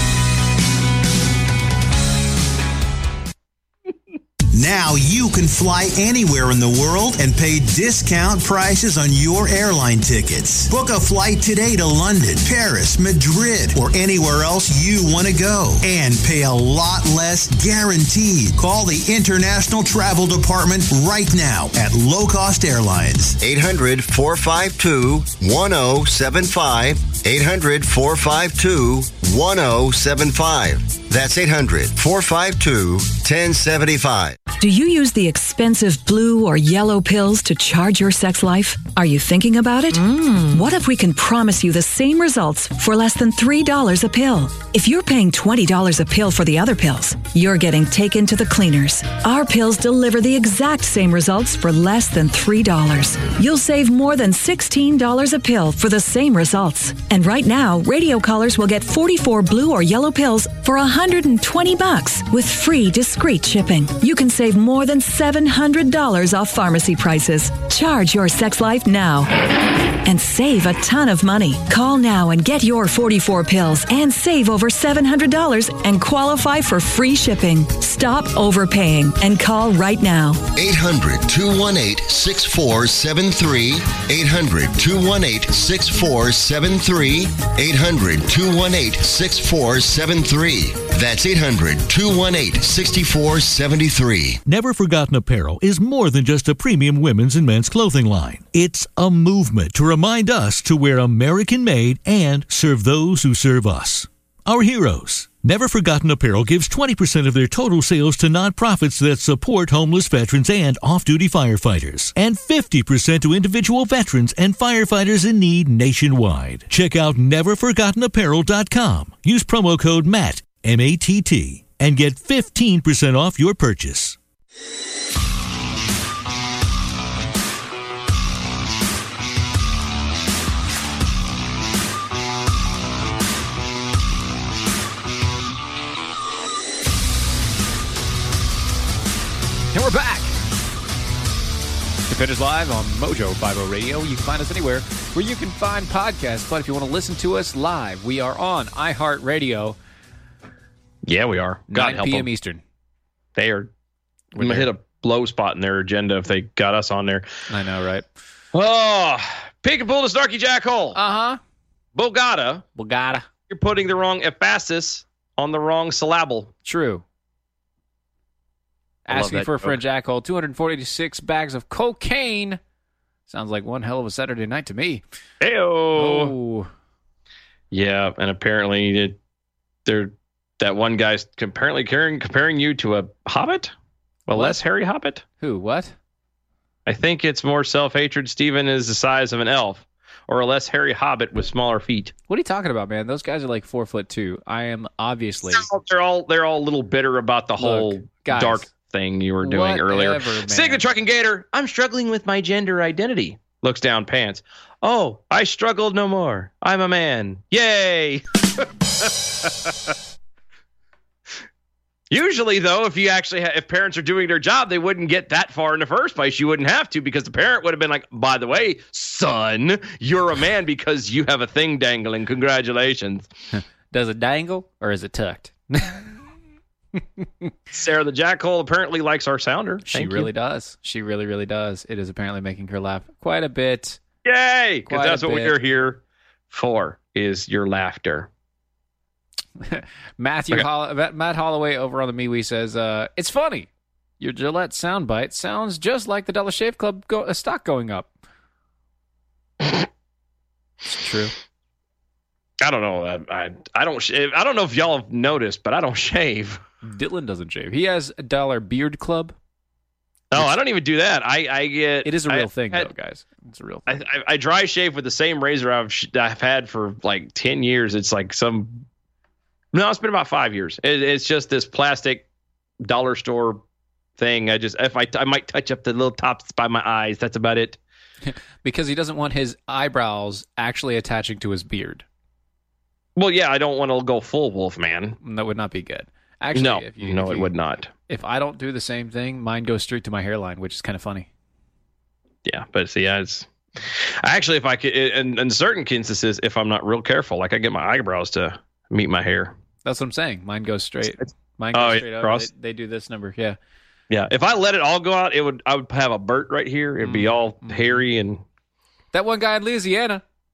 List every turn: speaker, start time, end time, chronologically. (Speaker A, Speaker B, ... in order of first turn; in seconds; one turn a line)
Speaker A: 4.5-23.4
Speaker B: 23.4-34.4
Speaker C: 34.5-80.5
Speaker B: 80.5-94.4
Speaker D: 94.5-124.2
Speaker E: 139.7-140.3
Speaker E: 142.1-149.8
Speaker F: 151.1-152.3
Speaker E: 151.7-152.6
Speaker F: 153.4-153.7
Speaker E: 154.3-154.7
Speaker F: 154.4-157.3
Speaker E: 157.5-158.1
Speaker F: 158.5-161.0
Speaker E: 160.9-161.4
Speaker F: 161.9-162.6
Speaker E: 162.8-163.3
Speaker F: 163.5-166.5
Speaker E: 166.6-167.0
Speaker E: 169.1-172.6
Speaker F: 169.1-169.8
Speaker E: 173.3-175.0
Speaker F: 175.4-176.3
Speaker E: 175.9-176.7
Speaker F: 177.7-179.2
Speaker F: 179.8-183.7
Speaker F: 184.3-185.2
Speaker E: 184.3-184.6
Speaker E: 185.4-185.9
Speaker F: 186.9-192.1
Speaker E: 192.3-195.7
Speaker F: 195.5-209.9
Speaker E: 197.6-198.7
Speaker E: 199.4-200.9
Speaker F: 212.1-223.3
Speaker E: 223.5-226.2
Speaker E: 227.2-227.5
Speaker F: 227.7-230.3
Speaker E: 229.8-234.0
Speaker F: 234.2-238.3
Speaker E: 234.9-235.6
Speaker E: 239.6-243.7
Speaker E: 244.2-248.1
Speaker E: 250.8-251.3
Speaker F: 252.6-256.6
Speaker E: 256.8-259.4
Speaker F: 260.3-262.9
Speaker E: 262.1-264.1
Speaker F: 263.9-268.9
Speaker F: 269.7-272.2
Speaker F: 272.8-273.6
Speaker F: 274.2-277.8
Speaker E: 278.2-282.1
Speaker F: 283.1-285.2
Speaker E: 285.2-287.5
Speaker F: 286.5-287.9
Speaker E: 288.1-291.3
Speaker F: 292.4-299.6
Speaker E: 299.8-303.6
Speaker F: 301.2-302.5
Speaker F: 304.1-308.4
Speaker E: 307.0-308.0
Speaker E: 309.1-310.2